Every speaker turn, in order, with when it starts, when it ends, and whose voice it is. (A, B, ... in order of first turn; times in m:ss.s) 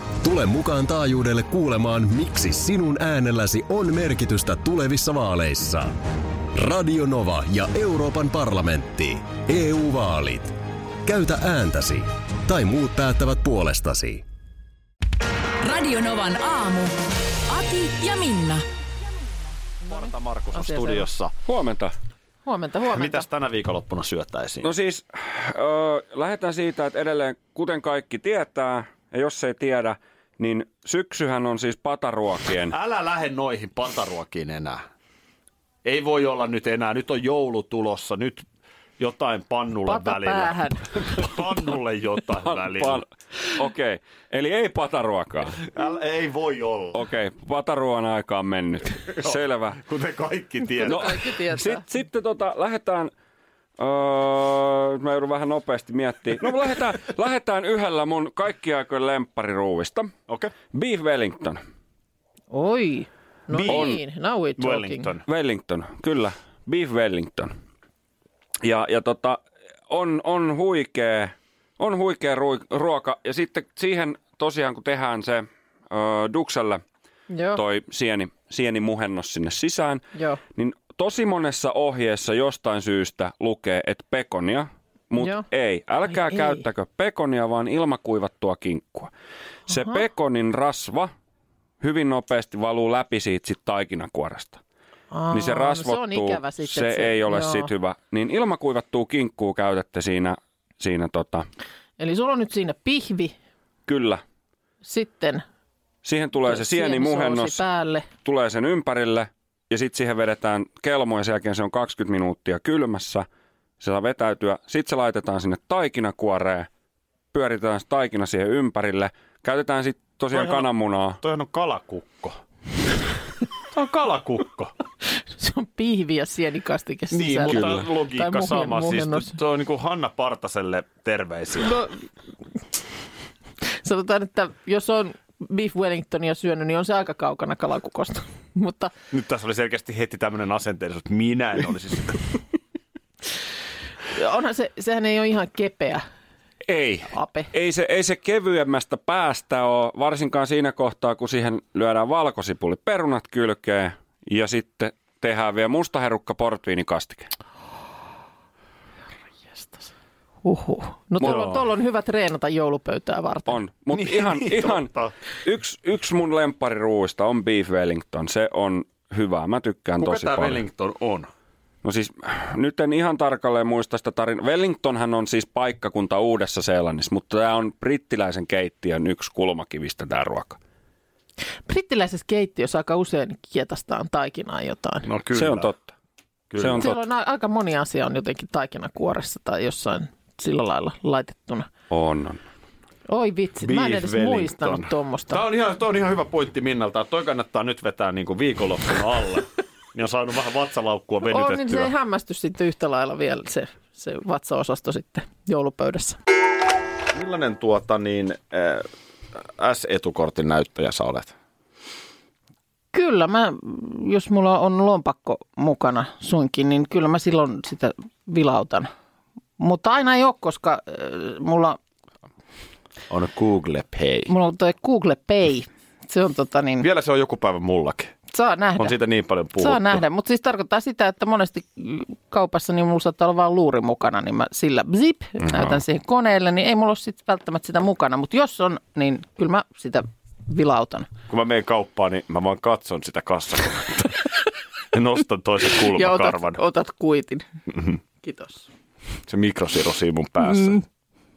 0:00.2-0:06.0 A
0:06.5-0:14.2 A
0:15.6-0:17.0 B
0:17.5-0:18.6 B
0:19.8-0:21.3 C
0:19.9-0:21.1 D
0:21.5-0:21.9 E
0:22.4-0:23.3 D
0:22.9-0:24.7 C
0:24.6-0:32.7 E
0:32.7-0:34.8 C
0:35.8-0:38.4 C
0:39.0-0:43.0 C
0:39.9-0:41.2 D
0:42.4-0:45.6 E
0:45.7-0:47.0 C
0:46.9-0:49.8 E
0:49.1-0:51.3 C
0:50.8-0:51.8 D
0:50.8-0:53.1 E
0:53.8-1:00.1 E
1:00.3-1:00.5 C
1:00.7-1:01.6 E
1:02.5-1:05.1 D
1:03.5-1:04.0 C
1:03.7-1:04.0 E
1:04.6-1:05.2 C
1:05.3-1:07.5 E
1:08.6-1:16.8 E
1:17.3-1:17.6 D
1:17.6-1:20.0 E
1:20.2-1:20.4 D
1:20.6-1:29.1 E
1:26.1-1:26.6 D
1:29.7-1:31.1 E
1:29.7-1:30.0 D
1:31.8-1:34.6 E
1:35.1-1:37.7 D
1:35.3-1:41.5 E
1:42.0-1:43.3 D
1:43.9-1:44.2 E
1:44.8-1:45.4 D
1:46.0-1:47.6 E
1:46.4-1:48.1 D
1:48.2-1:53.2 E
1:53.8-1:56.7 E
1:57.3-2:01.2 E
2:00.3-2:00.7 C
2:01.2-2:02.4 C
2:03.6-2:04.7 C
2:05.3-2:09.4 D
2:07.1-2:11.8 C
2:07.5-2:07.8 E
2:11.6-2:11.9 D
2:13.8-2:18.9 D
2:19.1-2:22.2 C
2:24.1-2:26.0 D
2:26.7-2:37.3 E
2:27.1-2:27.5 D
2:40.4-2:43.6 D
2:41.2-2:41.6 C
2:41.2-2:41.6 E
2:43.5-2:44.9 E
2:43.9-2:45.1 C
2:45.4-2:50.6 E
2:50.0-2:51.3 C
2:51.8-3:00.6 E
3:01.7-3:05.1 D
3:05.0-3:05.7 C
3:05.3-3:05.9 E
3:06.5-3:07.0 C
3:06.6-3:06.9 E
3:06.8-3:11.7 D
3:11.9-3:12.4 E
3:13.1-3:15.4 D
3:13.6-3:21.9 C
3:21.3-3:26.2 D
3:27.1-3:28.9 C
3:29.4-3:31.3 C
3:32.9-3:38.9 D
3:39.6-3:41.8 D
3:43.1-3:44.3 C
3:44.3-3:46.9 D
3:46.8-3:48.1 C
3:48.3-3:48.9 D
3:48.8-3:50.0 C
3:49.6-4:01.1 D
3:55.4-3:55.8 C
4:01.3-4:04.3 C
4:04.9-4:06.6 C
4:05.9-4:07.5 D
4:08.2-4:08.7 D
4:09.3-4:10.8 C
4:10.4-4:10.8 D